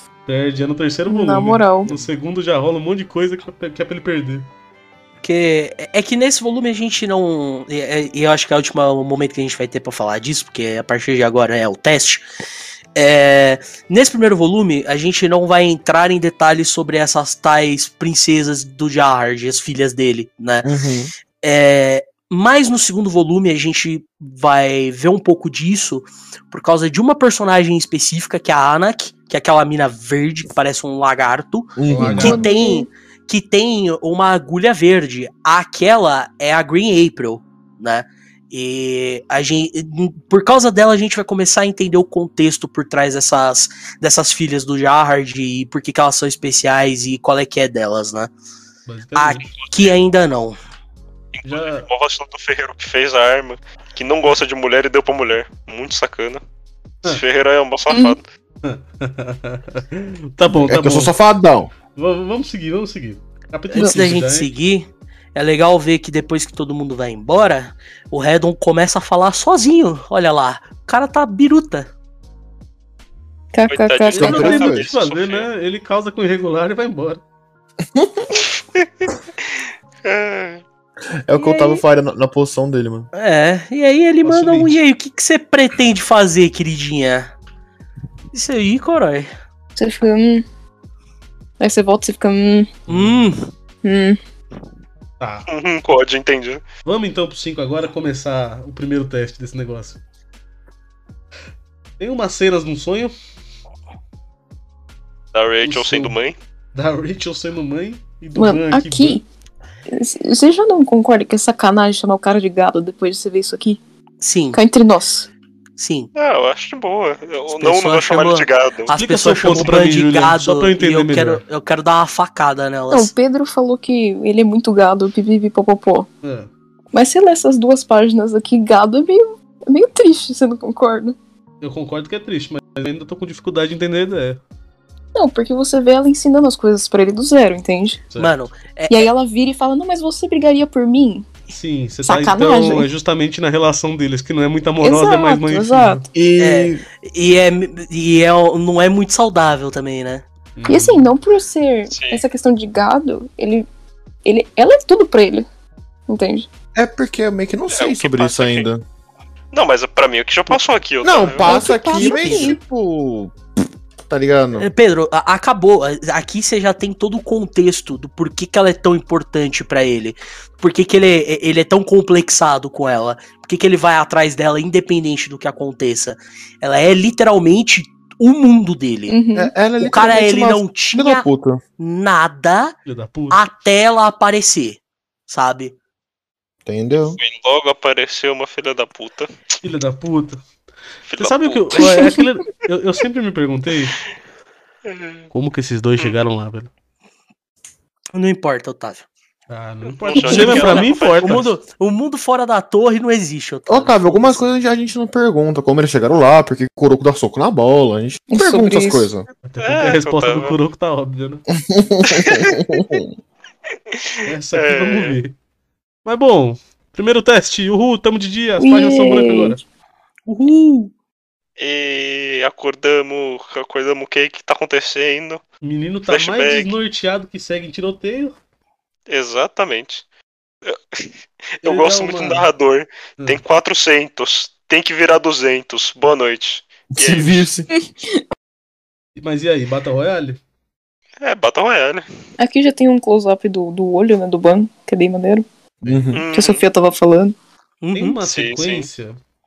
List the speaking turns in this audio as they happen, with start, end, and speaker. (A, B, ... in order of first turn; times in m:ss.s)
0:00.3-0:04.5 A
0:01.1-0:01.9 B
0:05.2-0:12.2 C
0:13.0-0:20.7 C
0:20.6-0:21.1 D
0:21.4-0:48.3 C
0:31.8-0:32.4 D
0:31.9-0:32.4 A
0:32.0-0:32.9 B
0:48.9-0:49.5 A
0:49.2-0:50.6 C
0:49.6-0:50.0 E
0:51.3-0:56.4 E
0:51.4-0:51.9 A
0:57.0-0:58.2 E
0:57.9-0:58.2 B
0:58.6-1:01.1 A
1:00.6-1:01.7 D
1:02.0-1:04.5 A
1:03.7-1:11.9 C
1:03.7-1:04.0 B
1:13.5-1:14.6 B
1:13.7-1:15.5 E
1:14.1-1:17.2 A
1:14.2-1:14.9 D
1:17.9-1:18.4 D
1:18.4-1:19.1 E
1:20.0-1:20.6 E
1:21.2-1:23.1 D
1:21.4-1:21.8 C
1:23.1-1:27.3 C
1:24.2-1:24.8 A
1:28.3-1:29.3 C
1:29.8-1:30.4 B
1:31.6-1:32.8 B
1:32.9-1:33.3 A
1:32.9-1:33.5 C
1:33.8-1:34.2 B
1:35.2-1:35.5 A
1:35.5-1:36.7 E
1:36.8-1:40.0 A
1:42.0-1:43.1 A
1:45.3-1:46.4 E
1:45.6-1:46.2 A
1:46.7-1:49.2 A
1:48.4-1:49.2 B
1:49.9-1:53.8 B
1:54.2-1:54.6 C
1:54.5-1:55.3 B
1:55.8-1:56.1 C
1:56.2-1:58.9 E
1:57.5-2:03.1 C
1:58.9-2:01.4 A
2:02.9-2:06.1 B
2:06.2-2:06.5 A
2:06.9-2:11.2 B
2:11.6-2:14.4 A
2:15.2-2:18.0 B
2:18.1-2:18.4 A
2:18.2-2:19.1 C
2:18.9-2:21.3 B
2:21.5-2:26.0 A
2:22.0-2:22.9 B
2:24.8-2:26.1 B
2:26.1-2:26.8 D
2:26.4-2:30.2 C
2:30.6-2:31.1 A
2:30.7-2:33.7 B
2:31.9-2:32.2 E
2:34.2-2:35.5 B
2:36.1-2:36.5 B
2:36.7-2:38.8 D
2:37.7-2:38.7 E
2:39.5-2:41.5 E
2:41.0-2:43.4 D
2:41.4-2:42.6 B
2:42.0-2:42.5 C
2:44.1-2:44.7 D
2:44.6-2:59.2 C
2:59.1-2:59.5 B
2:59.4-3:01.6 D
2:59.8-3:01.3 C
3:01.8-3:02.8 C
3:02.9-3:03.4 A
3:03.3-3:05.8 C
3:06.7-3:07.2 D
3:07.2-3:09.4 E
3:09.6-3:10.4 A
3:11.1-3:12.2 E
3:11.2-3:14.0 A
3:14.9-3:15.3 E
3:15.3-3:16.7 A
3:18.1-3:19.1 C
3:19.5-3:21.5 A
3:19.9-3:21.4 E
3:20.2-3:24.5 C
3:20.3-3:20.7 B
3:23.7-3:29.3 D
3:28.3-3:29.1 B
3:29.4-3:31.4 A
3:29.6-3:30.6 E
3:31.7-3:33.1 D
3:32.1-3:32.6 E
3:33.9-3:35.2 E
3:34.3-3:35.4 A
3:36.0-3:39.6 A
3:38.6-3:39.6 B
3:40.3-3:40.9 C
3:41.6-3:45.4 E
3:45.6-3:48.4 A
3:46.1-3:46.7 E
3:49.1-3:50.0 E
3:50.6-3:51.1 E
3:51.6-3:57.6 E
3:51.6-3:52.5 A
3:56.9-3:57.7 D
3:57.8-3:58.2 B
3:59.2-4:00.4 A
4:01.2-4:02.1 E
4:02.4-4:05.5 B
4:05.8-4:06.2 D
4:06.1-4:06.6 E
4:06.3-4:07.4 B
4:07.8-4:08.2 C
4:08.0-4:09.2 A
4:08.2-4:08.9 E